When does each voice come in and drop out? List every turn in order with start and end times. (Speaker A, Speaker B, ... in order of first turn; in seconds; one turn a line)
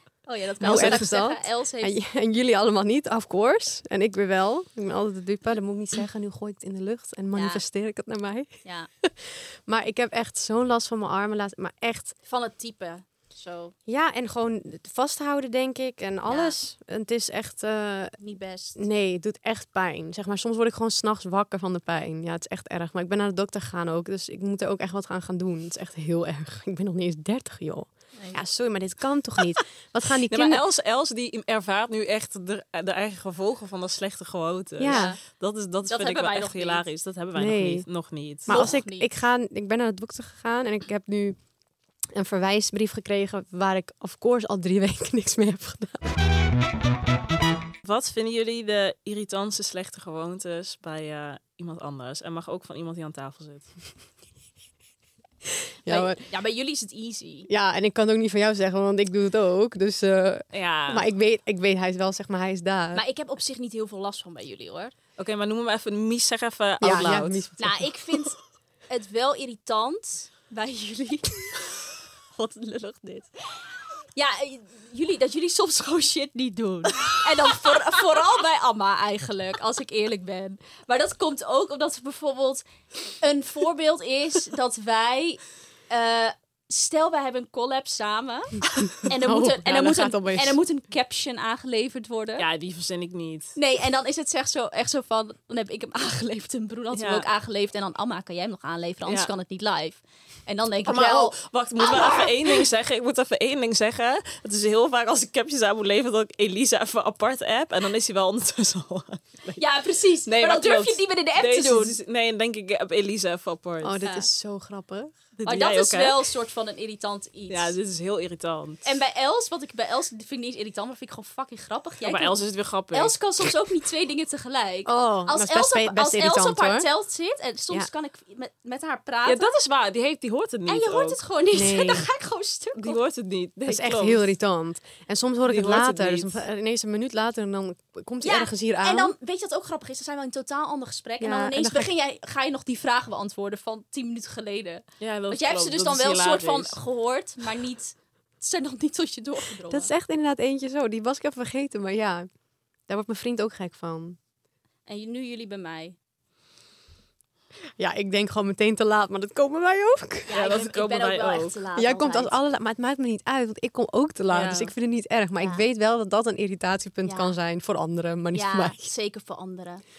Speaker A: 0.2-2.0
Speaker B: 0.6-12.1
Speaker C: 0.6-1.0
Speaker A: 7.3-7.6
Speaker A: 8.6-8.9
Speaker A: 12.2-13.7
Speaker B: 13.9-18.2
Speaker A: 16.3-16.6
Speaker A: 18.2-18.9
Speaker B: 18.8-30.6
Speaker A: 28.1-28.4
Speaker C: 30.3-38.7
Speaker B: 34.8-35.1
Speaker A: 34.8-35.2
Speaker A: 35.9-36.9
Speaker B: 37.4-37.9
Speaker B: 38.5-41.4
Speaker A: 38.5-39.1
Speaker B: 42.1-46.1
Speaker C: 47.8-53.7
Speaker B: 55.9-56.2
Speaker A: 55.9-57.5
Speaker B: 57.5-63.0
Speaker C: 60.5-61.1
Speaker A: 62.9-64.9
Speaker C: 65.2-67.5
Speaker B: 66.8-67.9
Speaker A: 67.6-71.6
Speaker C: 72.4-73.2
Speaker A: 74.2-82.6
Speaker C: 77.0-77.7
Speaker A: 83.2-92.5
Speaker B: 89.1-90.6
Speaker C: 92.4-93.5
Speaker A: 93.6-102.6
Speaker C: 96.9-97.3
Speaker C: 100.8-109.6
Speaker A: 109.6-112.0
Speaker C: 110.3-114.0
Speaker B: 113.8-115.2
Speaker C: 115.4-116.2
Speaker A: 115.4-117.8
Speaker C: 117.5-118.8
Speaker A: 118.8-129.5
Speaker C: 122.1-123.2
Speaker B: 124.9-126.9
Speaker C: 129.2-131.2
Speaker A: 130.7-133.0
Speaker B: 131.5-132.1
Speaker C: 132.8-134.3
Speaker B: 133.7-139.1
Speaker C: 135.5-136.4
Speaker A: 138.2-149.9
Speaker B: 141.2-141.9
Speaker C: 145.0-146.8
Speaker B: 149.7-152.3
Speaker B: 152.9-154.2
Speaker A: 154.9-156.0
Speaker B: 157.8-160.3
Speaker A: 160.3-162.4
Speaker C: 160.3-161.6
Speaker B: 161.8-168.9
Speaker C: 164.3-164.7
Speaker A: 167.1-167.3
Speaker A: 168.3-169.8